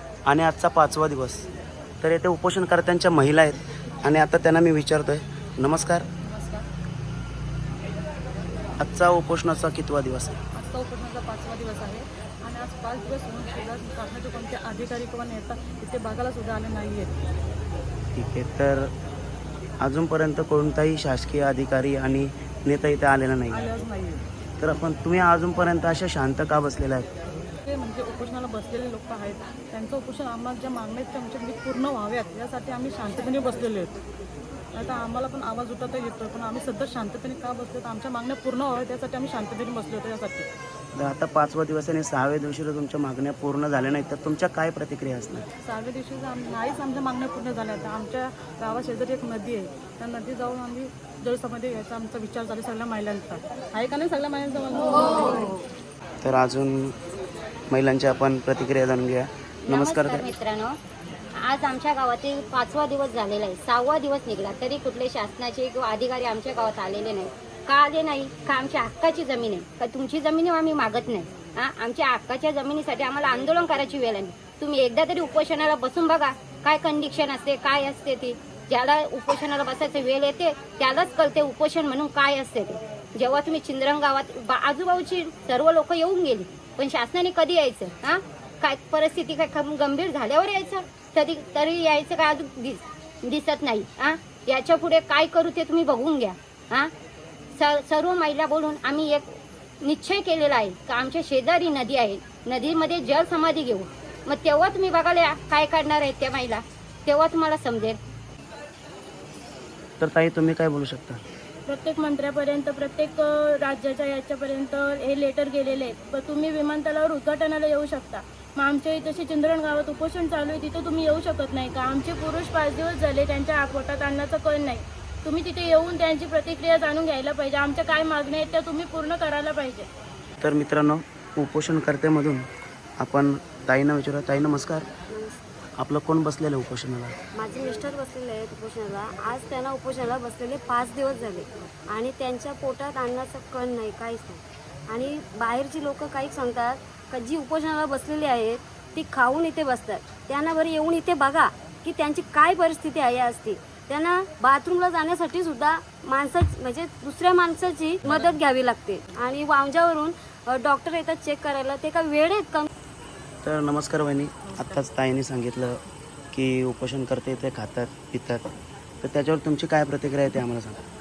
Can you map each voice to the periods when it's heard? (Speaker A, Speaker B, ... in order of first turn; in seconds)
Speaker A: 0.3-1.5, 2.0-6.1, 8.8-10.4, 18.1-18.9, 19.8-23.7, 24.6-27.1, 41.0-45.5, 56.2-56.9, 57.7-60.3, 110.0-111.2, 130.4-132.4, 133.0-134.9, 135.8-137.2, 163.4-165.8, 166.3-168.4, 169.0-170.8
Speaker B: 6.2-6.7, 10.6-17.2, 23.5-24.2, 27.7-34.0, 34.7-40.5, 45.6-55.6, 164.4-164.8
Speaker C: 59.6-60.8, 61.4-96.9, 97.5-108.0
Speaker D: 111.7-129.9
Speaker E: 135.1-135.4, 137.3-162.7